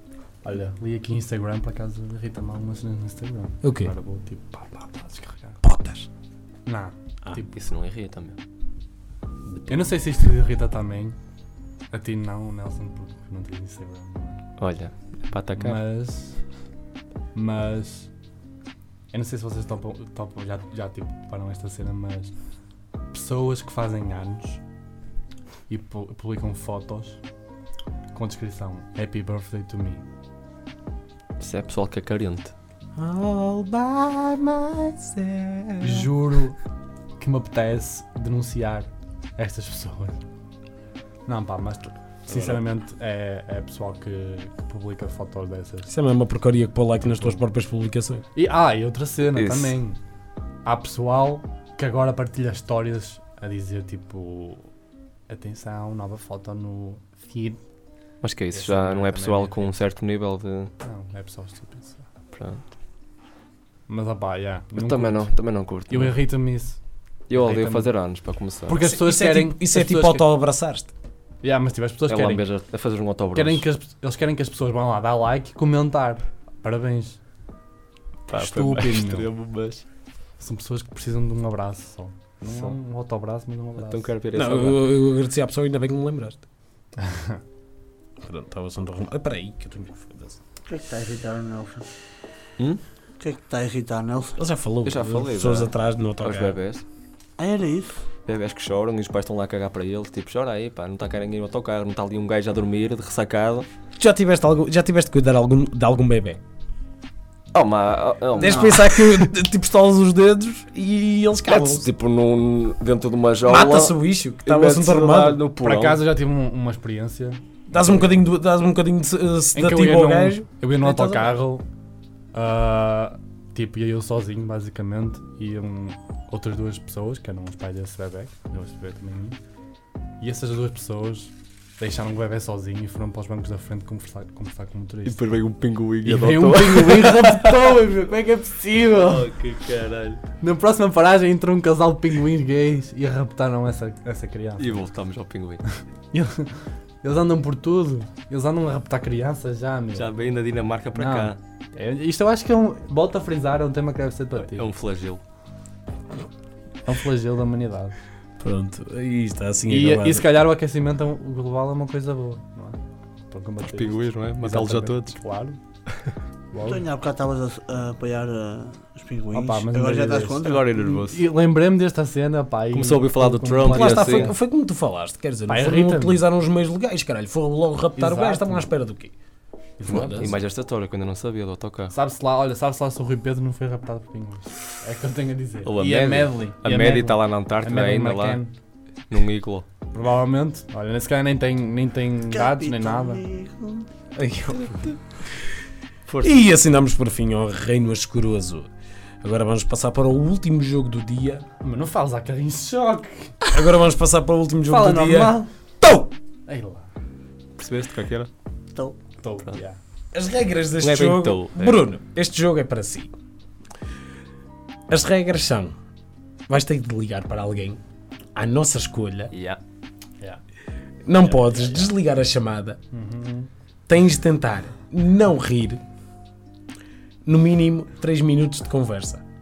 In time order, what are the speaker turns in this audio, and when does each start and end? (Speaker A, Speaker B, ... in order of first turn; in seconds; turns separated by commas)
Speaker A: 0.4-5.6, Speaker B: 3.6-3.9, Speaker B: 5.6-6.1, Speaker A: 6.7-7.5, Speaker C: 7.5-8.4, Speaker A: 9.7-11.2, Speaker A: 11.9-14.4, Speaker C: 14.6-15.8, Speaker A: 15.6-16.4, Speaker A: 17.3-18.1, Speaker A: 19.1-22.3, Speaker A: 23.1-24.6, Speaker A: 25.7-27.2, Speaker A: 28.1-30.0, Speaker C: 31.4-32.5, Speaker B: 33.0-36.1, Speaker A: 35.8-36.6, Speaker A: 37.2-40.2, Speaker A: 41.2-45.9, Speaker B: 42.3-42.6, Speaker B: 45.9-48.2, Speaker A: 47.0-47.4, Speaker A: 48.3-50.0, Speaker C: 49.3-49.8, Speaker A: 50.6-54.7, Speaker A: 55.3-57.6, Speaker C: 58.2-60.7, Speaker A: 58.5-59.8, Speaker A: 60.8-62.0, Speaker C: 62.3-62.6, Speaker A: 63.9-65.3, Speaker C: 64.8-66.2, Speaker A: 65.9-66.8, Speaker C: 67.3-68.8, Speaker A: 67.3-67.9, Speaker A: 68.7-70.2, Speaker B: 68.8-70.9, Speaker A: 71.4-72.4, Speaker C: 72.1-73.6, Speaker A: 73.3-77.2, Speaker C: 78.3-79.8, Speaker A: 78.3-79.3, Speaker A: 80.4-84.1, Speaker C: 82.5-82.8, Speaker C: 83.8-84.8, Speaker B: 84.3-86.4, Speaker A: 87.0-87.4, Speaker B: 88.2-90.4, Speaker D: 90.7-91.9, Speaker D: 93.2-94.4, Speaker B: 94.4-96.6, Speaker C: 94.8-96.8, Speaker D: 97.4-98.0, Speaker C: 98.3-103.7, Speaker B: 104.0-106.4, Speaker C: 107.5-109.3, Speaker B: 108.3-111.9, Speaker D: 108.4-108.7, Speaker C: 111.5-116.0, Speaker B: 113.4-115.4, Speaker A: 115.6-118.1, Speaker B: 117.7-121.3, Speaker A: 119.5-121.6, Speaker A: 122.3-129.4, Speaker A: 130.2-135.2, Speaker C: 135.1-137.8, Speaker A: 136.0-139.3, Speaker C: 139.0-140.2, Speaker A: 140.4-144.8, Speaker C: 144.6-145.6, Speaker A: 146.1-150.1, Speaker C: 149.9-151.4, Speaker A: 150.9-154.7, Speaker C: 154.4-155.2, Speaker A: 156.8-157.9, Speaker B: 158.4-160.4, Speaker A: 159.7-165.6, Speaker C: 163.6-165.2, Speaker A: 166.5-166.8, Speaker D: 166.6-170.7, Speaker A: 169.3-174.3, Speaker C: 170.4-171.3, Speaker C: 172.7-174.3, Speaker B: 173.6-179.1, Speaker A: 175.5-176.2, Speaker A: 177.9-178.7, Speaker A: 179.8-180.3, Speaker B: 179.8-180.3, Speaker C: 179.9-181.9, Speaker A: 181.9-188.5, Speaker C: 185.7-188.4, Speaker C: 189.1-189.7, Speaker A: 189.9-193.2, Speaker D: 192.3-193.9, Speaker B: 194.1-195.0, Speaker C: 196.1-196.3, Speaker B: 196.2-198.7, Speaker B: 199.2-201.4, Speaker A: 201.6-203.3, Speaker B: 203.5-206.1, Speaker A: 204.7-205.5, Speaker A: 206.5-206.9, Speaker C: 207.6-208.3, Speaker A: 209.2-209.8, Speaker B: 210.1-213.1, Speaker C: 210.8-211.8, Speaker B: 214.9-215.7, Speaker B: 216.5-217.8, Speaker B: 218.3-219.3, Speaker C: 219.3-219.6, Speaker B: 221.0-222.8, Speaker A: 222.9-223.5, Speaker B: 223.9-225.8, Speaker B: 227.2-229.2